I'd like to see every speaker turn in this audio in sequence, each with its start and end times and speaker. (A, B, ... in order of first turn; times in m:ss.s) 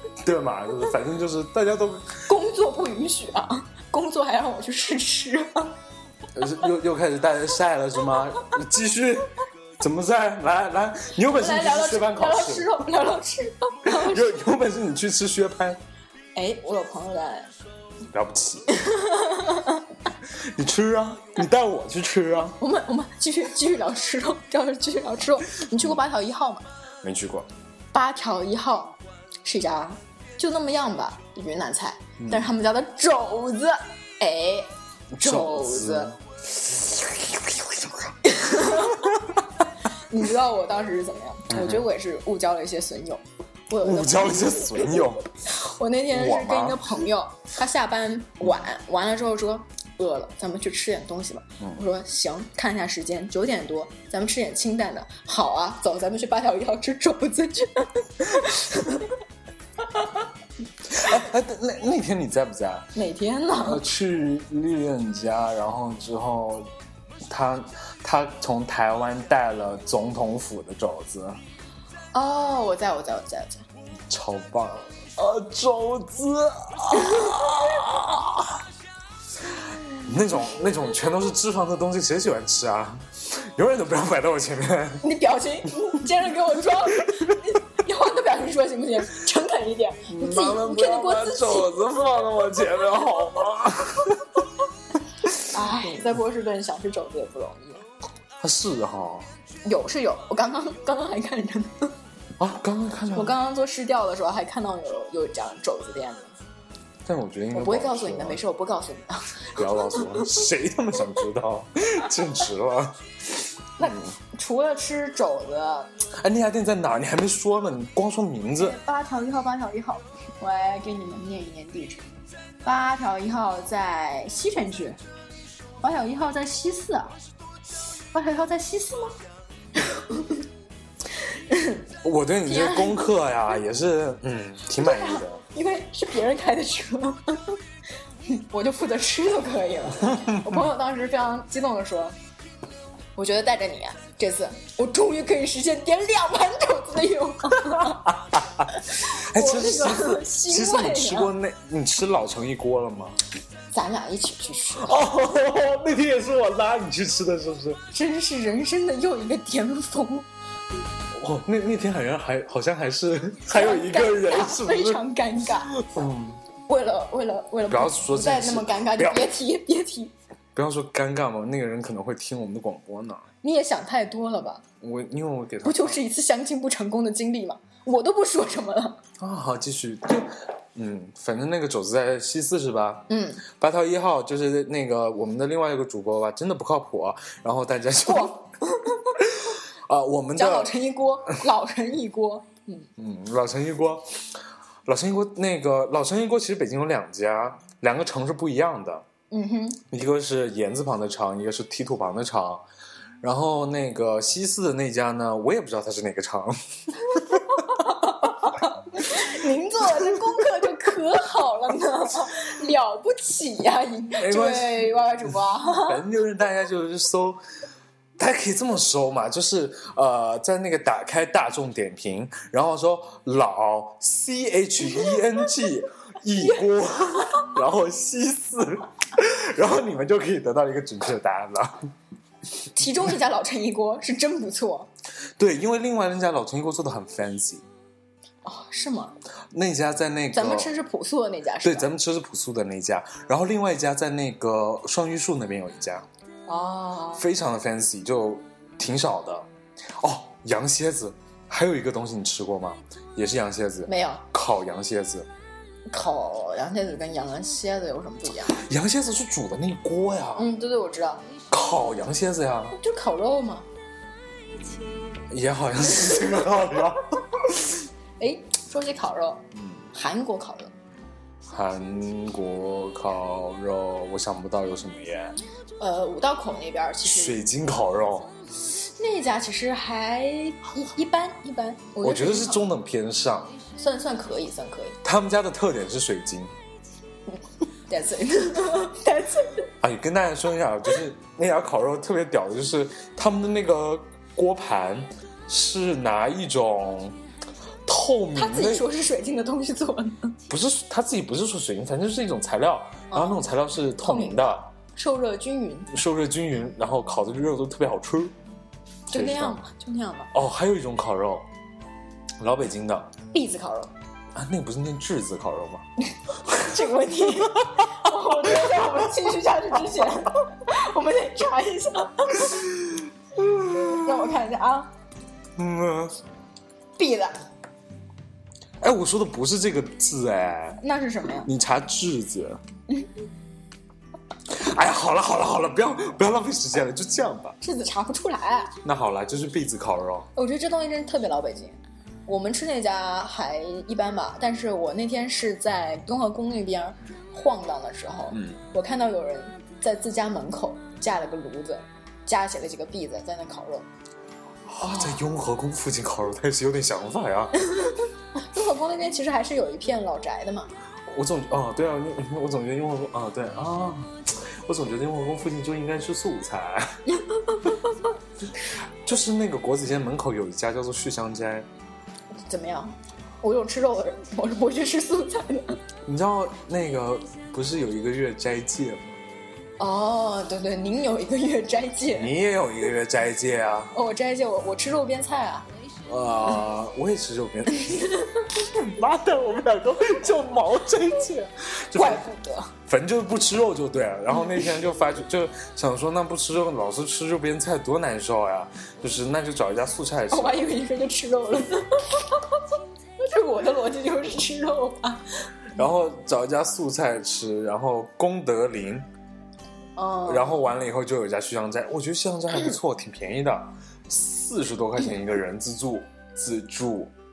0:00.2-0:02.2 A
0:02.3-0:05.8 B
0:06.3-0:12.7 A
0:11.3-0:14.4 B
0:13.8-0:15.8 A
0:16.4-0:17.5 B
0:18.1-0:18.7 A
0:18.7-0:19.9 B
0:20.4-0:22.6 A
0:22.6-0:26.6 B
0:27.0-0:27.5 A
0:27.9-0:36.1 B
0:32.2-0:32.5 A
0:35.1-0:39.4 A
0:38.2-0:39.1 B
0:40.1-0:59.1 B
0:41.5-0:41.9 A
0:43.8-0:45.3 A
0:46.1-0:46.9 A
1:00.9-1:02.9 A
1:03.0-1:03.8 B
1:03.6-1:06.7 A
1:07.3-1:11.4 A
1:12.1-1:13.6 B
1:14.1-1:18.6 A
1:20.0-1:25.1 A
1:25.0-1:31.7 B
1:30.1-1:34.4 A
1:35.4-1:37.8 B
1:35.7-1:36.0 A
1:38.4-1:39.3 A
1:39.6-1:41.9 B
1:42.4-1:43.4 A
1:43.1-1:46.3 B
1:47.0-1:48.4 A
1:47.5-1:50.3 B
1:49.6-1:54.1 A
1:53.8-1:55.9 B
1:56.2-1:58.8 A
1:58.6-2:02.1 B
2:02.6-2:05.0 B
2:05.8-2:07.2 B
2:08.1-2:09.2 B
2:09.8-2:10.4 B
2:11.5-2:11.8 B
2:12.0-2:15.4 A
2:12.5-2:13.1 B
2:14.8-2:17.6 B
2:18.3-2:22.2 B
2:23.2-2:28.1 B
2:27.7-2:33.2 A
2:28.7-2:31.3 B
2:33.7-2:35.0 B
2:34.8-2:37.8 A
2:37.9-2:40.3 B
2:41.1-2:45.0 A
2:43.5-2:45.8 B
2:45.7-2:46.4 A
2:46.7-2:50.1 B
2:47.7-2:49.3 A
2:50.6-2:53.3 A
2:53.4-2:54.6 B
2:54.8-2:56.0 A
2:55.6-2:59.0 B
2:59.2-3:08.4 A
3:03.1-3:03.4 B
3:08.0-3:09.1 B
3:09.2-3:10.8 A
3:10.4-3:12.9 B
3:13.0-3:14.0 A
3:14.9-3:19.1 A
3:19.3-3:19.8 B
3:19.9-3:22.6 A
3:23.2-3:27.8 A
3:27.6-3:36.0 B
3:34.2-3:37.4 A
3:38.2-3:51.8 A
3:52.7-3:54.9 B
3:55.4-3:57.6 A
3:58.4-3:59.2 B
3:59.5-4:00.7 A
4:00.3-4:01.9 B
4:01.6-4:06.1 A
4:06.5-4:07.2 B
4:07.2-4:15.3 A
4:13.9-4:14.2 B
4:15.9-4:18.6 B
4:18.5-4:20.5 A
4:20.4-4:21.2 B
4:21.5-4:22.8 A
4:22.7-4:23.7 B
4:25.3-4:27.8 A
4:28.2-4:30.7 B
4:29.5-4:29.8 A
4:31.5-4:35.4 A
4:35.8-4:37.4 B
4:37.0-4:38.3 A
4:38.8-4:42.6 B
4:42.0-4:43.6 A
4:43.8-4:45.0 B
4:45.0-4:46.5 A
4:47.9-4:49.7 B
4:49.8-4:57.2 A
4:57.9-4:58.9 A
4:58.4-5:00.4 B
5:00.5-5:04.7 A
5:03.1-5:03.4 B
5:04.0-5:05.9 B
5:05.9-5:08.3 A
5:09.1-5:09.6 A
5:09.1-5:10.3 B
5:10.3-5:11.5 A
5:12.4-5:13.1 A
5:13.3-5:13.9 B
5:14.4-5:15.8 A
5:16.5-5:22.6 B
5:22.8-5:24.0 A
5:23.8-5:24.9 B
5:25.6-5:26.2 A
5:27.0-5:27.4 B
5:28.8-5:30.8 A
5:30.8-5:31.5 B
5:31.4-5:32.6 A
5:34.5-5:37.6 A
5:37.6-5:38.8 B
5:38.8-5:40.3 A
5:40.4-5:53.9 B
5:48.3-5:48.6 A
5:54.7-5:57.5 A
5:54.8-5:55.2 B
5:57.7-6:00.7 B
6:01.1-6:07.0 A
6:07.1-6:07.9 B
6:09.0-6:11.7 A
6:12.4-6:15.8 B
6:16.0-6:19.2 A
6:19.8-6:22.3 B
6:22.1-6:23.9 A
6:23.9-6:25.7 B
6:26.1-6:32.2 A
6:31.9-6:32.7 B
6:32.9-6:40.6 A
6:40.3-6:42.6 B
6:43.2-6:45.3 B
6:45.8-6:49.1 A
6:50.0-6:50.7 B
6:50.3-6:57.1 A